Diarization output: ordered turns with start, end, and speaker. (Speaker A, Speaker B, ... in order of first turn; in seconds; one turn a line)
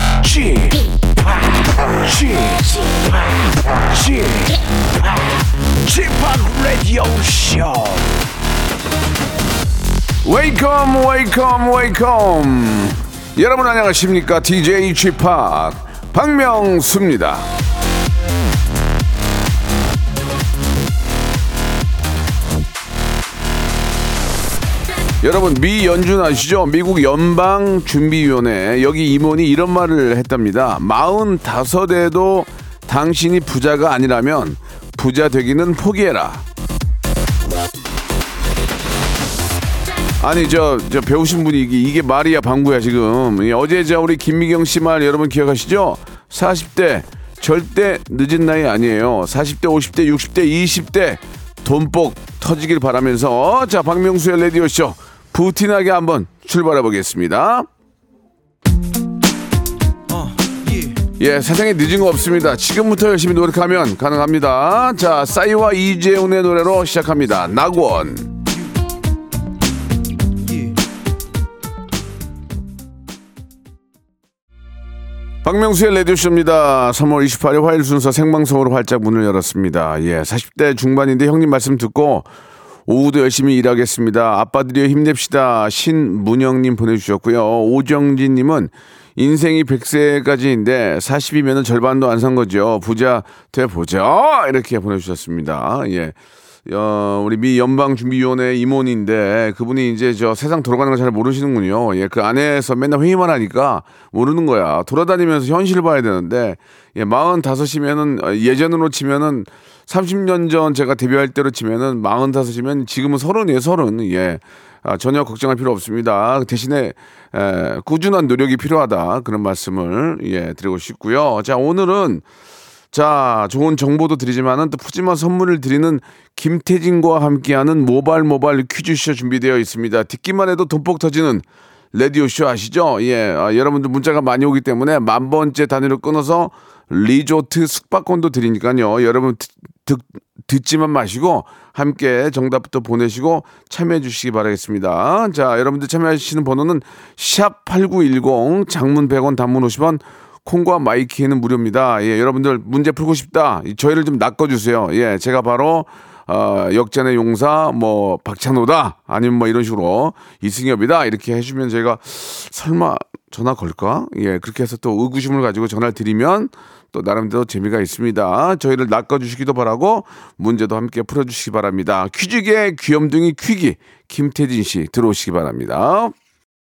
Speaker A: 0.2-2.8
Speaker A: 3.9-8.1
Speaker A: 10.2-17.5
Speaker A: 25.2-36.5
Speaker A: 40.2-57.7
Speaker A: 61.2-68.3
Speaker A: 75.4-82.3
Speaker A: 82.9-122.2
Speaker A: 122.9-176.2